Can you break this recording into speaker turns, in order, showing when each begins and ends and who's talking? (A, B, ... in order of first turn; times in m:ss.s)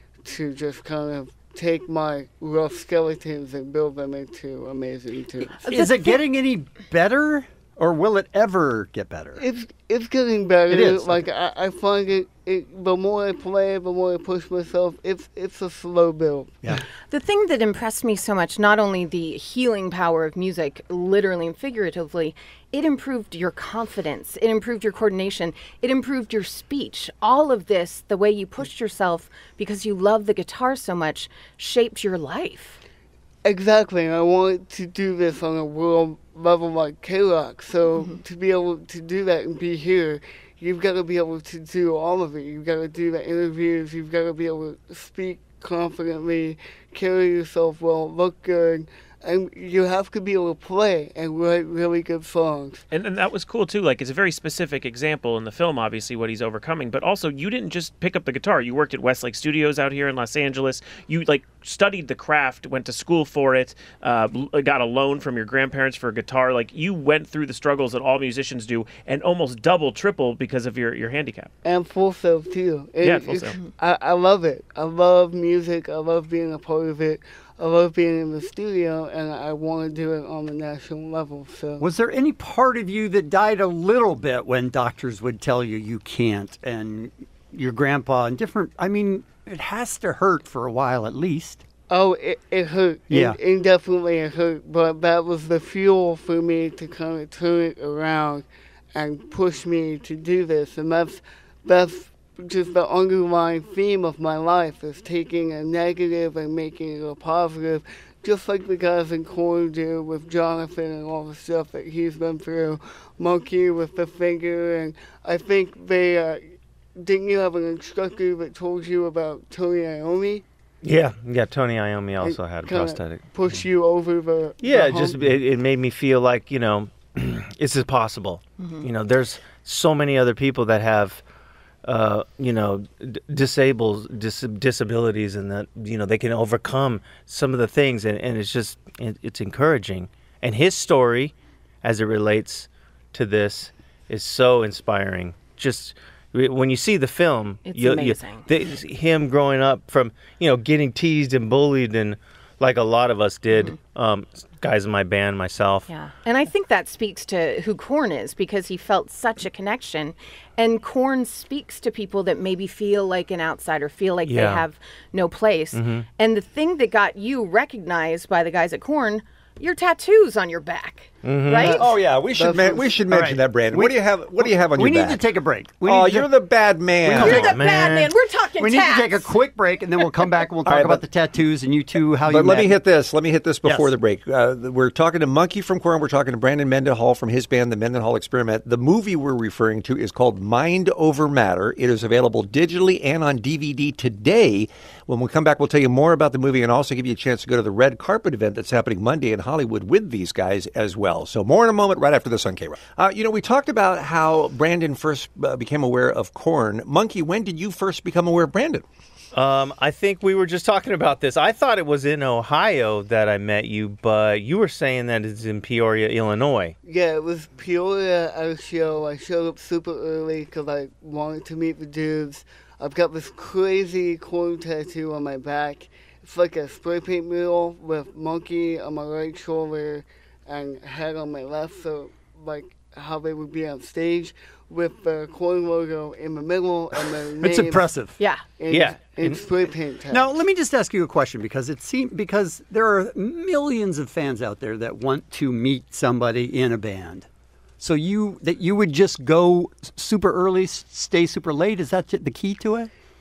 0:00.2-0:05.5 A
0:05.4-0:09.4 B
0:05.6-0:06.2 C
0:09.4-0:16.8 A
0:10.7-0:11.2 B
0:17.1-0:32.8 C
0:33.4-0:52.8 A
0:37.9-0:38.2 C
0:52.9-1:11.5 D
1:11.6-1:21.8 A
1:13.0-1:13.6 D
1:21.8-1:31.6 B
1:31.9-2:00.4 A
1:33.1-1:33.4 B
2:00.8-2:03.6 E
2:02.2-2:05.2 A
2:04.6-2:11.2 E
2:08.6-2:08.8 C
2:11.8-2:35.9 E
2:27.6-2:28.5 C
2:35.9-2:51.9 C
2:44.2-2:44.6 E
2:45.7-2:46.1 E
2:51.2-2:51.8 E
2:51.6-2:55.2 F
2:52.3-2:53.0 A
2:53.0-2:53.4 E
2:53.7-2:56.4 B
2:55.8-2:57.5 F
2:57.1-2:57.6 B
2:57.1-2:59.3 C
2:57.1-2:58.1 E
2:58.6-3:02.8 B
3:00.6-3:01.0 F
3:02.3-3:28.8 F
3:03.6-3:03.9 B
3:29.3-3:36.8 E
3:36.8-3:57.9 A
3:57.4-3:58.2 B
3:58.2-3:58.4 C
3:58.6-4:00.3 A
3:58.7-3:59.4 E
4:00.1-4:07.3 B
4:07.8-4:12.9 B